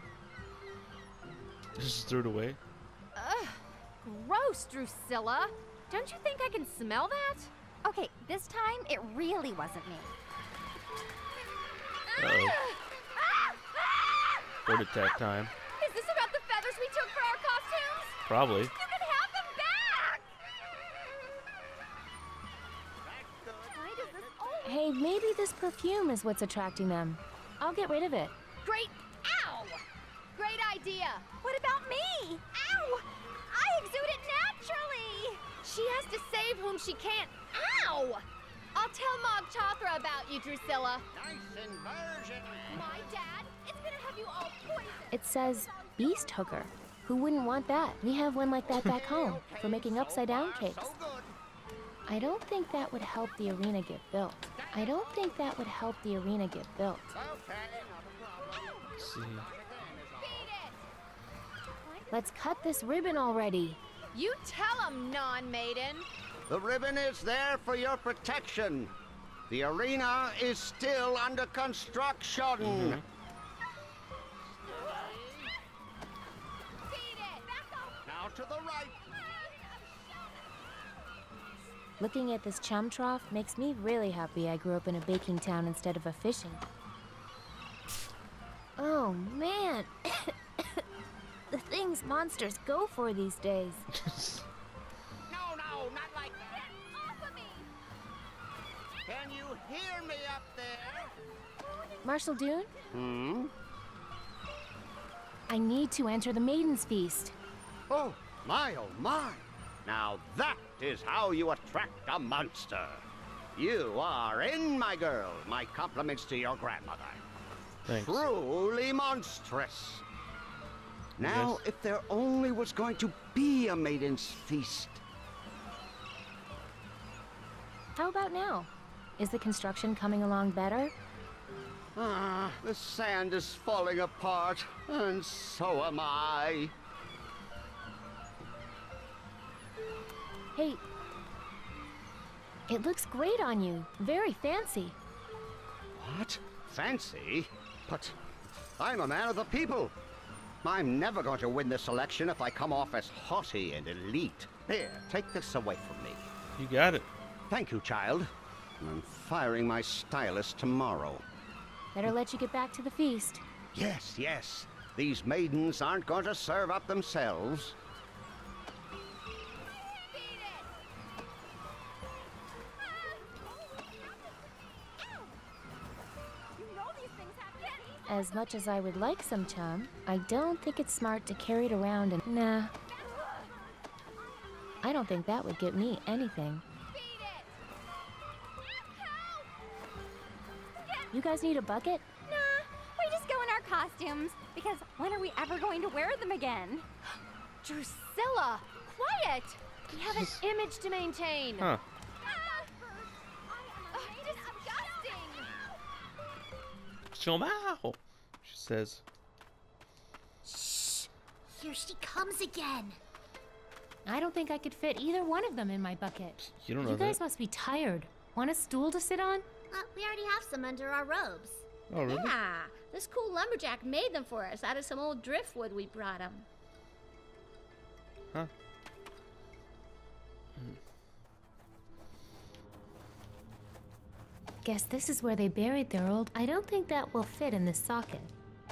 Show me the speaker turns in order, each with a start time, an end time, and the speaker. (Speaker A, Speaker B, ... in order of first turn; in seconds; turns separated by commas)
Speaker A: 1.8-2.6, Speaker B: 3.2-7.5, Speaker C: 7.8-10.1, Speaker A: 12.2-12.6, Speaker B: 12.2-14.1, Speaker A: 14.7-15.5, Speaker B: 15.8-20.2, Speaker A: 18.3-18.7, Speaker D: 23.0-24.8, Speaker C: 23.7-24.7, Speaker E: 24.6-28.4, Speaker B: 28.6-29.8, Speaker B: 30.4-31.4, Speaker C: 31.4-32.4, Speaker B: 32.5-38.2, Speaker B: 38.8-41.0, Speaker D: 41.1-43.0, Speaker B: 42.7-45.1, Speaker E: 45.1-50.9, Speaker D: 48.6-51.4, Speaker E: 52.1-57.1, Speaker D: 54.6-55.5, Speaker D: 57.1-60.5, Speaker A: 59.0-59.5, Speaker B: 60.2-60.8, Speaker C: 61.8-62.3, Speaker E: 62.1-63.8, Speaker B: 64.1-66.1, Speaker D: 66.5-68.9, Speaker D: 69.5-73.0, Speaker A: 72.6-73.0, Speaker D: 74.7-75.5, Speaker B: 74.7-75.5, Speaker B: 76.9-78.2, Speaker D: 78.0-79.0, Speaker B: 78.8-80.9, Speaker E: 82.0-86.6, Speaker E: 88.8-90.8, Speaker E: 91.5-93.8, Speaker A: 93.9-94.5, Speaker D: 95.3-96.8, Speaker B: 96.5-97.7, Speaker D: 99.1-101.1, Speaker B: 101.7-102.0, Speaker E: 102.0-102.7, Speaker D: 102.9-103.5, Speaker E: 105.5-107.3, Speaker D: 107.9-117.2, Speaker A: 117.9-118.3, Speaker D: 117.9-120.0, Speaker D: 121.2-125.0, Speaker A: 121.2-121.6, Speaker E: 128.0-130.9, Speaker D: 132.0-136.7, Speaker E: 140.6-140.8, Speaker E: 142.7-145.0, Speaker D: 145.9-148.2, Speaker D: 148.8-149.9, Speaker D: 150.6-156.3, Speaker A: 156.6-157.1, Speaker D: 157.5-161.2, Speaker E: 161.9-163.4, Speaker D: 163.7-167.8, Speaker B: 169.8-170.7, Speaker B: 172.9-175.2, Speaker B: 176.6-178.2, Speaker E: 178.1-182.7, Speaker B: 183.0-183.5, Speaker E: 184.8-186.6, Speaker B: 186.9-187.5, Speaker B: 188.7-189.5, Speaker B: 190.8-191.1, Speaker E: 191.1-192.1, Speaker B: 192.3-192.6, Speaker C: 192.7-196.9, Speaker B: 197.6-201.7, Speaker A: 200.1-200.4, Speaker A: 201.6-201.8, Speaker C: 202.2-205.2, Speaker B: 202.3-202.8, Speaker B: 203.9-205.5, Speaker A: 207.1-209.0, Speaker F: 210.4-213.0, Speaker E: 214.1-219.4, Speaker A: 216.4-217.2, Speaker F: 219.7-226.5, Speaker A: 221.9-222.4, Speaker E: 234.6-238.3